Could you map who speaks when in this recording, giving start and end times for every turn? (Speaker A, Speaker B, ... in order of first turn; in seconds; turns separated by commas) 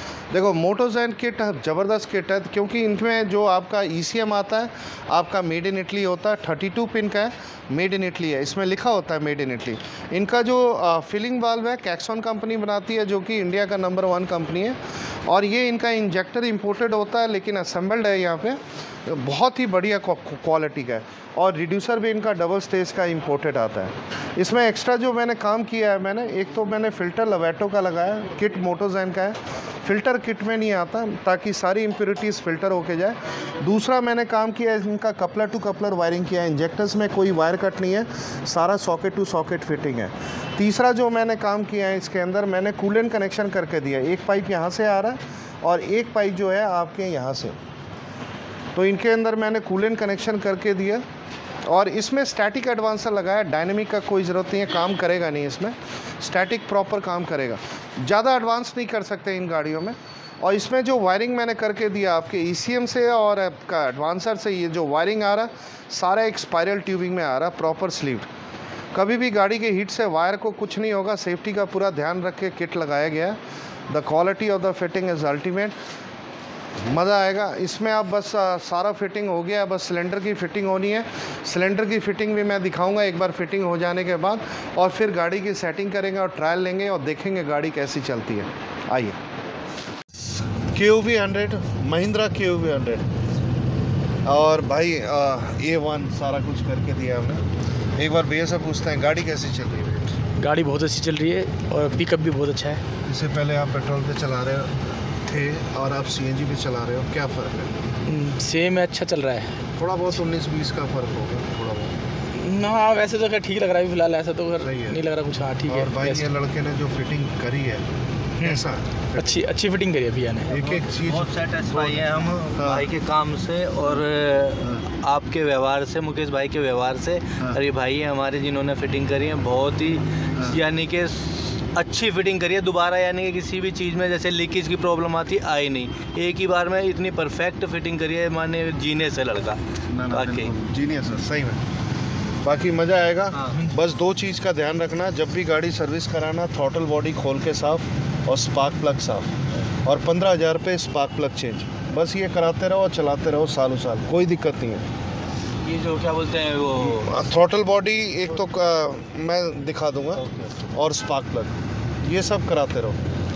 Speaker A: 0.3-47.6, Speaker A: 48.7-51.0, Speaker A: 51.7-68.3, Speaker A: 68.9-73.4, Speaker A: 73.9-75.8, Speaker A: 76.9-89.2, Speaker A: 90.7-93.1, Speaker A: 94.2-97.4, Speaker A: 98.0-100.1, Speaker B: 100.4-102.8, Speaker A: 103.0-107.8, Speaker B: 108.1-109.5, Speaker A: 109.8-112.0, Speaker B: 112.4-116.1, Speaker A: 114.6-115.0, Speaker A: 115.7-117.8, Speaker A: 118.4-119.4, Speaker B: 119.4-120.4, Speaker A: 120.5-122.9, Speaker C: 120.5-140.5, Speaker A: 139.9-141.6, Speaker A: 142.4-149.3, Speaker C: 143.4-143.7, Speaker A: 149.8-154.8, Speaker C: 155.6-157.2, Speaker A: 156.8-163.0, Speaker C: 160.2-160.5